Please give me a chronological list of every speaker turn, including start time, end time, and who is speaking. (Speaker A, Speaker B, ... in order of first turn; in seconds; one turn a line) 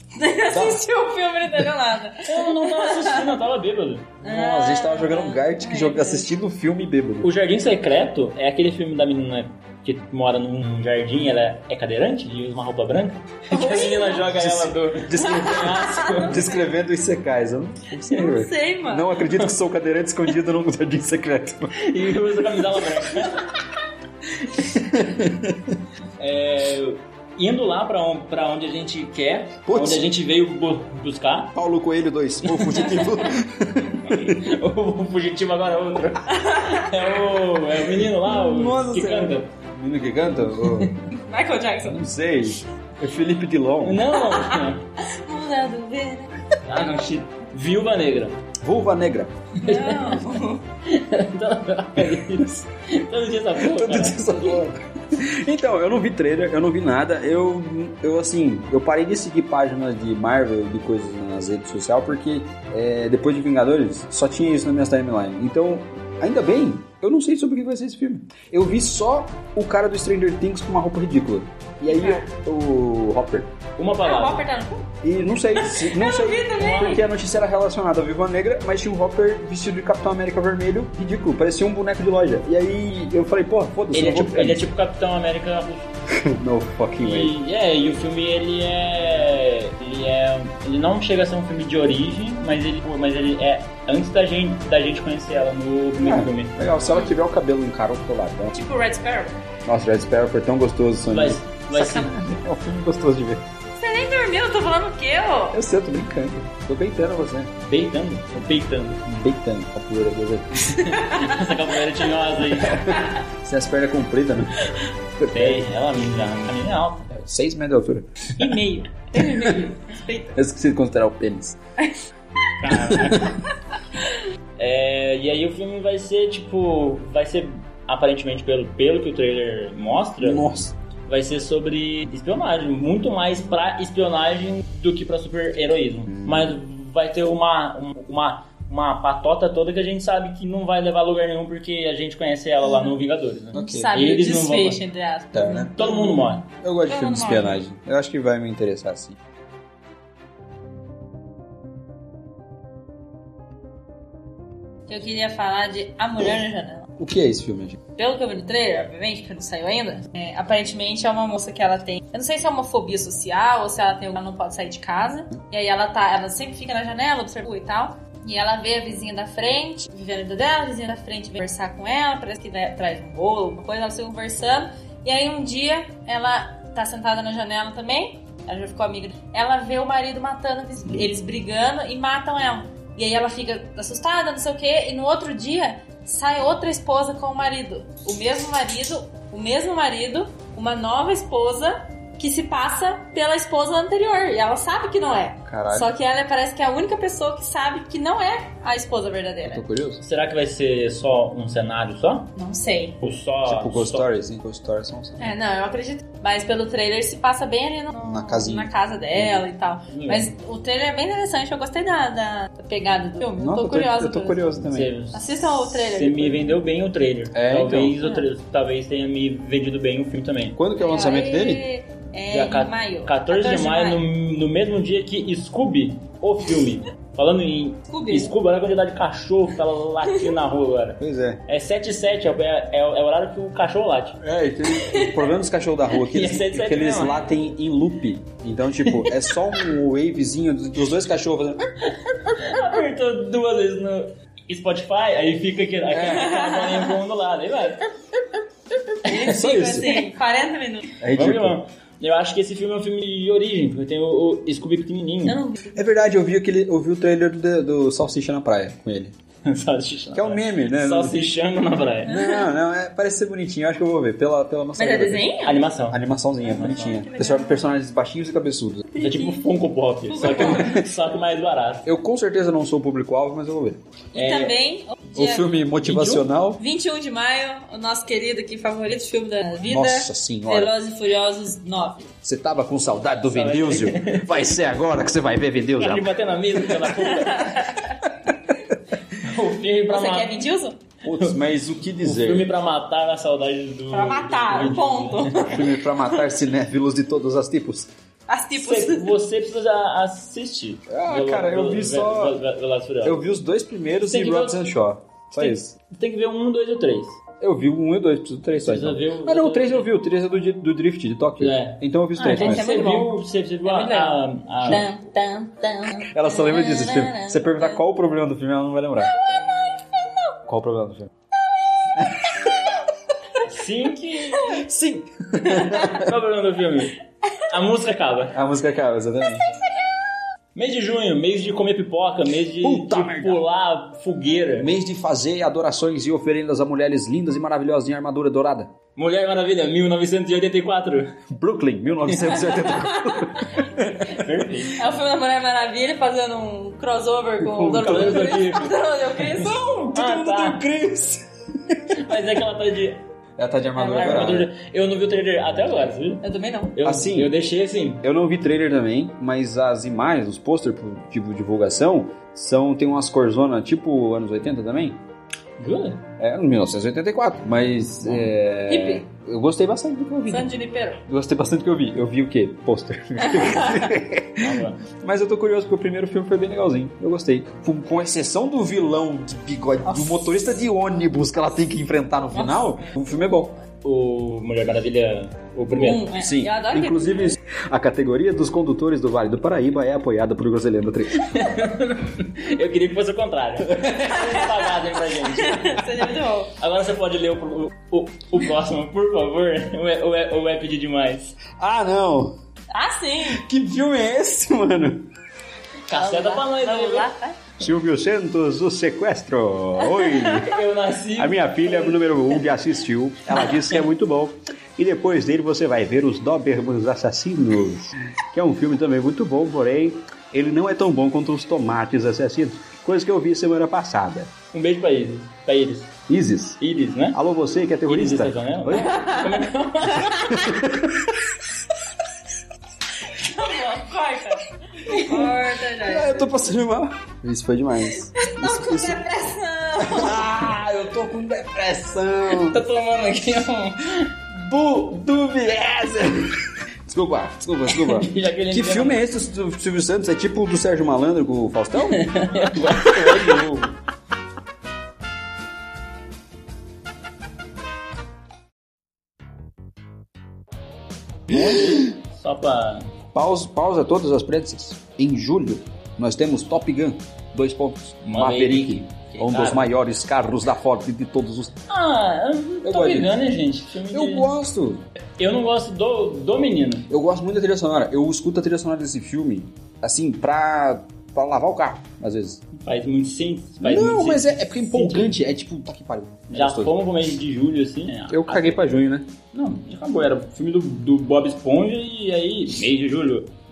Speaker A: 0.2-3.3
Speaker B: 0.5-0.8
Speaker C: 2.2-4.2
Speaker A: 4.2-6.3
Speaker B: 4.2-7.3
Speaker C: 7.2-16.5
Speaker A: 13.5-14.3
Speaker B: 14.3-21.9
Speaker A: 15.2-16.3
Speaker A: 18.1-19.2
Speaker C: 21.8-23.6
Speaker B: 24.6-25.8
Speaker C: 26.2-31.6
Speaker B: 29.7-30.1
Speaker B: 31.6-34.5
Speaker C: 32.4-33.2
Speaker C: 34.1-39.5
Speaker A: 36.3-36.9
Speaker B: 38.3-40.9
Speaker C: 40.6-40.9
Speaker A: 41.1-42.0
Speaker B: 41.8-44.1
Speaker C: 43.8-44.8
Speaker A: 44.2-46.4
Speaker C: 46.6-48.4
Speaker B: 48.6-49.3
Speaker C: 49.6-54.6
Speaker A: 49.6-50.6
Speaker B: 53.6-73.5
Speaker A: 71.9-72.2
Speaker C: 73.8-74.4
Speaker A: 74.0-74.9
Speaker B: 75.0-84.6
Speaker A: 75.5-77.0
Speaker C: 76.5-77.0
Speaker C: 83.9-85.9
Speaker B: 86.1-87.3
Speaker C: 87.0-96.6
Speaker B: 96.0-98.5
Speaker A: 98.5-99.4
Speaker B: 99.7-103.4
Speaker C: 101.1-102.2
Speaker A: 103.8-105.6
Speaker B: 105.5-107.5
Speaker C: 107.6-109.0
Speaker B: 109.0-110.8
Speaker C: 110.7-112.8
Speaker A: 110.8-111.5
Speaker B: 112.6-114.6
Speaker B: 115.2-115.7
Speaker C: 115.3-117.1
Speaker B: 117.1-118.3
Speaker A: 118.4-120.4
Speaker B: 119.2-119.6
Speaker B: 120.3-121.6
Speaker C: 122.6-123.4
Speaker B: 122.8-123.2
Speaker C: 124.6-130.5
Speaker B: 130.2-130.7
Speaker C: 131.1-144.8
Speaker B: 136.1-136.6
Speaker B: 143.5-144.0
Speaker A: 143.6-146.2
Speaker B: 145.3-146.0
Speaker C: 145.8-146.4
Speaker B: 146.6-149.2
Speaker A: 146.9-147.6
Speaker A: 154.9-156.9
Speaker B: 157.0-157.8
Speaker A: 158.0-199.6
Speaker B: 195.5-195.9
Speaker B: 199.4-200.0
Speaker C: 200.0-202.3
Speaker A: 202.3-203.0
Speaker C: 203.0-204.1
Speaker B: 203.4-205.3
Speaker A: 205.2-216.6
Speaker B: 208.0-209.4
Speaker C: 209.9-210.3
Speaker B: 213.4-214.9
Speaker C: 214.7-220.6
Speaker B: 217.3-218.0
Speaker A: 218.0-218.3
Speaker B: 220.6-221.6
Speaker A: 220.8-224.0
Speaker C: 222.3-234.2
Speaker A: 227.9-228.3
Speaker B: 231.0-231.4
Speaker B: 234.2-241.7
Speaker A: 234.7-235.2
Speaker C: 235.9-237.3
Speaker C: 242.1-247.8
Speaker B: 245.9-246.4
Speaker A: 246.1-246.9
Speaker A: 249.0-250.9
Speaker B: 249.1-250.0
Speaker C: 249.3-249.7
Speaker B: 251.0-251.6
Speaker C: 251.1-255.4
Speaker A: 255.2-255.8
Speaker B: 255.8-259.1
Speaker C: 259.4-262.1
Speaker B: 260.1-261.3
Speaker B: 262.1-265.3
Speaker A: 262.1-262.5
Speaker A: 264.8-265.6
Speaker C: 265.4-267.0
Speaker B: 265.9-268.9
Speaker A: 266.9-267.7
Speaker A: 268.9-269.4
Speaker C: 269.0-271.9
Speaker A: 270.1-270.7
Speaker B: 270.2-270.9
Speaker B: 271.8-273.8
Speaker A: 274.1-275.5
Speaker C: 274.1-274.5
Speaker B: 275.1-276.6
Speaker C: 275.8-276.3
Speaker A: 276.6-282.1
Speaker B: 279.7-280.7
Speaker B: 282.2-286.1
Speaker C: 283.3-284.5
Speaker C: 285.8-287.7
Speaker A: 287.0-288.0
Speaker C: 289.2-290.4
Speaker A: 289.9-290.8
Speaker B: 291.0-292.5
Speaker C: 291.1-291.4
Speaker C: 292.0-295.6
Speaker A: 293.9-296.2
Speaker B: 295.4-297.9
Speaker A: 298.3-299.2
Speaker C: 298.6-303.2
Speaker B: 300.9-302.4
Speaker B: 303.0-305.8
Speaker C: 304.0-304.7
Speaker C: 305.4-307.2
Speaker B: 307.4-312.7
Speaker C: 308.6-309.9
Speaker C: 311.4-314.9
Speaker A: 312.2-317.8
Speaker B: 316.1-319.1
Speaker A: 319.1-320.3
Speaker B: 320.5-321.1
Speaker B: 322.0-322.3
Speaker C: 323.4-324.6
Speaker B: 324.5-326.1
Speaker A: 325.5-326.0
Speaker C: 325.8-328.4
Speaker B: 328.3-329.5
Speaker C: 330.6-334.7
Speaker B: 332.6-333.4
Speaker B: 334.6-338.7
Speaker C: 339.0-341.1
Speaker B: 341.3-344.3
Speaker C: 342.1-342.5
Speaker A: 342.6-343.4
Speaker C: 344.1-344.8
Speaker A: 344.8-349.9
Speaker B: 347.4-348.5
Speaker C: 347.8-350.6
Speaker B: 349.7-351.9
Speaker C: 351.9-353.0
Speaker B: 353.4-354.5
Speaker A: 353.8-354.3
Speaker C: 353.9-356.2
Speaker A: 356.2-356.8
Speaker C: 356.8-358.0
Speaker B: 356.8-357.3
Speaker B: 358.0-365.0
Speaker C: 365.6-366.0
Speaker B: 366.2-370.5
Speaker A: 368.7-369.0
Speaker A: 370.3-371.0
Speaker B: 371.1-383.6
Speaker A: 373.2-373.9
Speaker C: 374.4-374.8
Speaker A: 379.9-380.3
Speaker A: 382.3-382.8
Speaker C: 383.8-386.1
Speaker A: 385.7-387.4
Speaker B: 386.1-391.4
Speaker C: 391.2-401.4
Speaker B: 393.6-394.2
Speaker A: 394.1-394.6
Speaker A: 395.1-396.5
Speaker B: 401.5-402.4
Speaker A: 402.7-403.4
Speaker B: 403.3-405.1
Speaker C: 405.9-407.1
Speaker A: 405.9-407.4
Speaker B: 407.6-410.6
Speaker A: 409.8-410.3
Speaker C: 410.2-412.0
Speaker B: 411.2-424.3
Speaker C: 424.5-425.9
Speaker B: 426.1-426.6
Speaker C: 426.6-427.2
Speaker B: 427.1-429.2
Speaker C: 427.9-430.4
Speaker A: 428.9-429.4
Speaker A: 429.9-430.4
Speaker B: 430.2-431.4
Speaker A: 433.1-436.3
Speaker B: 434.9-439.0
Speaker A: 438.0-440.5
Speaker B: 439.8-442.6
Speaker C: 442.5-444.0
Speaker A: 442.7-443.7
Speaker B: 444.3-452.2
Speaker C: 447.7-449.0
Speaker C: 451.8-453.8
Speaker B: 461.3-461.9
Speaker C: 461.3-462.9
Speaker B: 463.1-471.6
Speaker C: 468.1-469.7
Speaker C: 471.7-474.3
Speaker B: 472.6-473.1
Speaker B: 473.9-474.8
Speaker C: 475.2-476.9
Speaker B: 476.9-482.4
Speaker C: 482.6-485.2
Speaker B: 483.6-486.8
Speaker C: 486.3-488.6
Speaker B: 488.1-489.1
Speaker C: 489.3-493.3